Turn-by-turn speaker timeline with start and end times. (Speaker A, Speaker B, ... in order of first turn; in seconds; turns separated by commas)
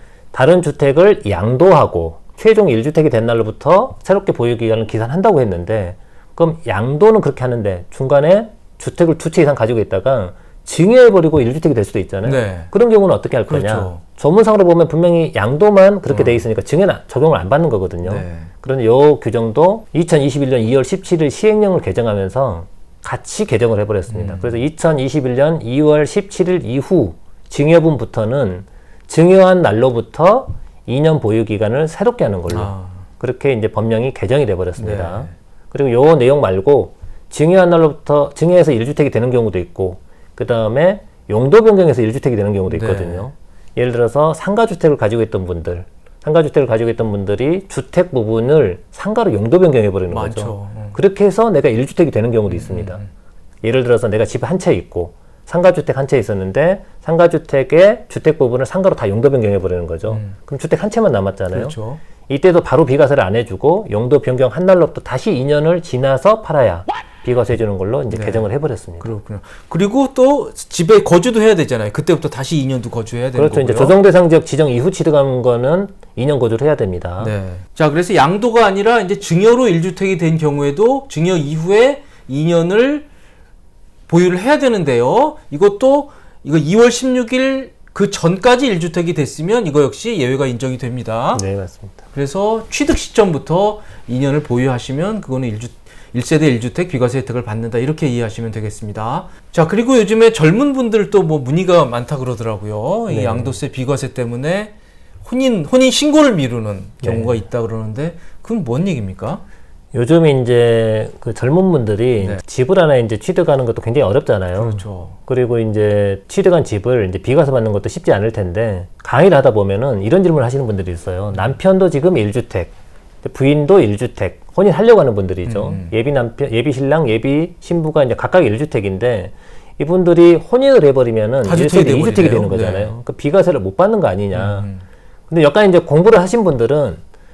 Speaker A: 0.3-53.0, Speaker B: 12.2-12.7, Speaker B: 13.5-14.0, Speaker B: 16.1-16.4, Speaker B: 18.0-18.5, Speaker B: 24.1-24.6, Speaker B: 32.5-33.1, Speaker B: 34.8-35.3, Speaker B: 42.7-43.3, Speaker B: 50.1-51.0, Speaker B: 52.5-53.1, Speaker A: 53.6-61.8, Speaker B: 60.1-60.3, Speaker B: 61.5-62.0, Speaker A: 62.3-69.1, Speaker B: 68.1-68.5, Speaker B: 69.0-74.0, Speaker A: 73.3-77.3, Speaker B: 77.2-83.1, Speaker B: 84.1-91.4, Speaker A: 91.3-92.0, Speaker B: 92.1-104.7, Speaker A: 103.1-103.6, Speaker B: 105.2-109.4, Speaker A: 107.0-107.4, Speaker A: 109.9-134.7, Speaker B: 114.6-115.2, Speaker B: 125.4-125.9, Speaker B: 131.4-132.9, Speaker B: 134.3-134.8, Speaker A: 135.3-137.0